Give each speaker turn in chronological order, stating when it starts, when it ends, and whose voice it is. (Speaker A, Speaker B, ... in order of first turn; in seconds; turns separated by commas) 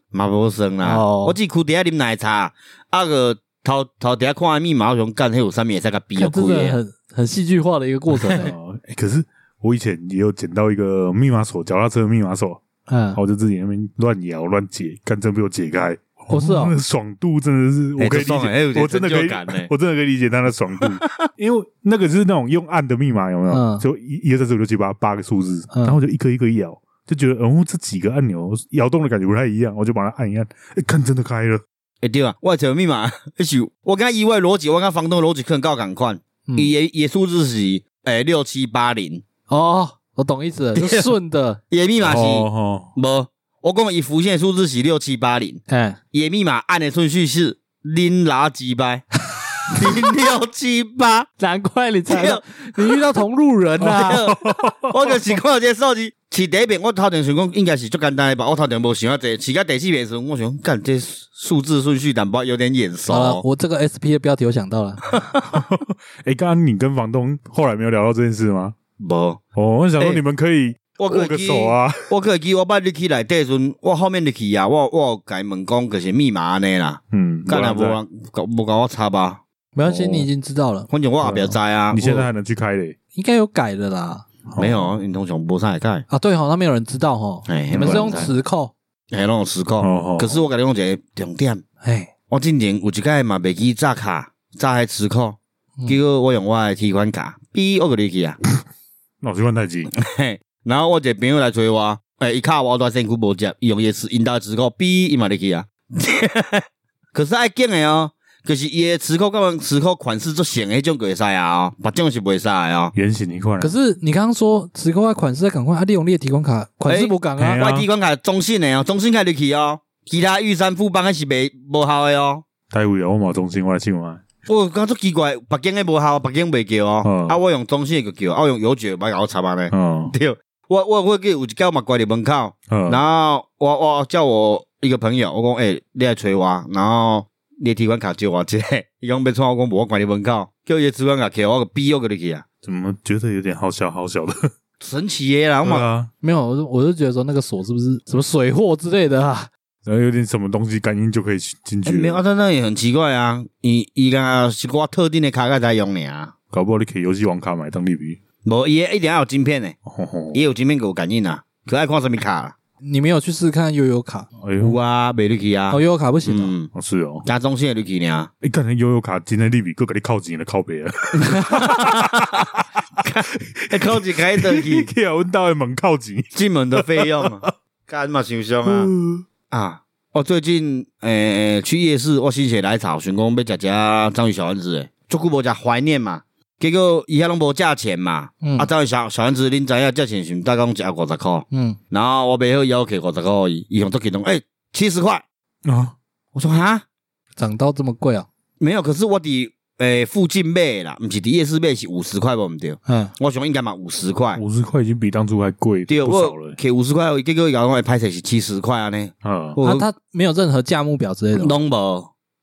Speaker A: 0.1-6.8, Speaker B: 0.8-1.4, Speaker B: 6.2-8.5, Speaker C: 8.2-12.6, Speaker B: 12.9-13.2, Speaker C: 13.1-31.6, Speaker B: 16.3-16.7, Speaker A: 18.0-19.7, Speaker A: 20.8-21.2, Speaker B: 23.5-23.8, Speaker B: 25.7-26.0, Speaker A: 32.0-39.2, Speaker B: 36.5-36.7, Speaker B: 39.5-41.6, Speaker A: 40.8-41.1, Speaker A: 41.7-45.6, Speaker C: 42.0-42.9, Speaker B: 45.7-46.0, Speaker A: 46.1-49.1, Speaker A: 49.7-51.3, Speaker B: 51.4-54.3, Speaker A: 52.1-53.0, Speaker C: 53.8-55.2, Speaker A: 53.8-63.4, Speaker B: 63.1-65.0, Speaker A: 65.1-65.5, Speaker C: 65.5-68.7, Speaker A: 69.0-69.4, Speaker C: 69.5-72.1, Speaker A: 70.0-70.2, Speaker A: 71.0-80.3, Speaker C: 77.1-78.0, Speaker B: 79.7-80.9, Speaker A: 80.9-82.3, Speaker C: 81.2-83.0, Speaker B: 83.1-84.2, Speaker C: 84.5-84.9, Speaker A: 84.6-86.0, Speaker B: 86.1-88.7, Speaker A: 87.5-88.3, Speaker C: 87.8-88.2, Speaker A: 89.1-91.6, Speaker C: 89.8-90.4, Speaker B: 91.8-92.1, Speaker A: 92.3-98.4, Speaker C: 99.2-99.9, Speaker A: 99.9-112.9, Speaker C: 112.9-113.7, Speaker B: 113.6-117.6, Speaker A: 116.9-122.4, Speaker C: 117.4-117.9, Speaker C: 122.7-124.2, Speaker A: 124.5-142.4, Speaker C: 127.0-127.4, Speaker C: 129.7-130.1, Speaker C: 132.7-133.0, Speaker C: 142.6-144.5, Speaker A: 144.8-145.9, Speaker C: 145.6-146.1, Speaker B: 146.2-149.5, Speaker C: 149.8-152.2, Speaker A: 151.8-156.3, Speaker C: 156.5-158.2, Speaker A: 158.4-159.8, Speaker C: 159.8-160.4, Speaker A: 160.3-162.5, Speaker B: 162.8-164.3, Speaker C: 164.4-164.8, Speaker A: 164.6-166.7, Speaker B: 165.7-166.5, Speaker C: 166.7-167.2, Speaker A: 167.2-168.3, Speaker C: 168.4-173.1, Speaker A: 171.2-172.3, Speaker A: 173.0-174.9, Speaker C: 173.6-177.5, Speaker A: 176.3-178.9, Speaker C: 178.6-179.2, Speaker A: 179.5-195.2, Speaker B: 188.4-188.7, Speaker B: 191.5-191.8, Speaker C: 195.7-195.9, Speaker A: 196.3-196.8, Speaker B: 197.4-198.3, Speaker A: 198.6-204.4, Speaker B: 202.8-203.1, Speaker C: 204.3-206.6, Speaker A: 205.9-209.8, Speaker C: 209.2-209.6, Speaker B: 209.6-211.6, Speaker A: 211.3-212.1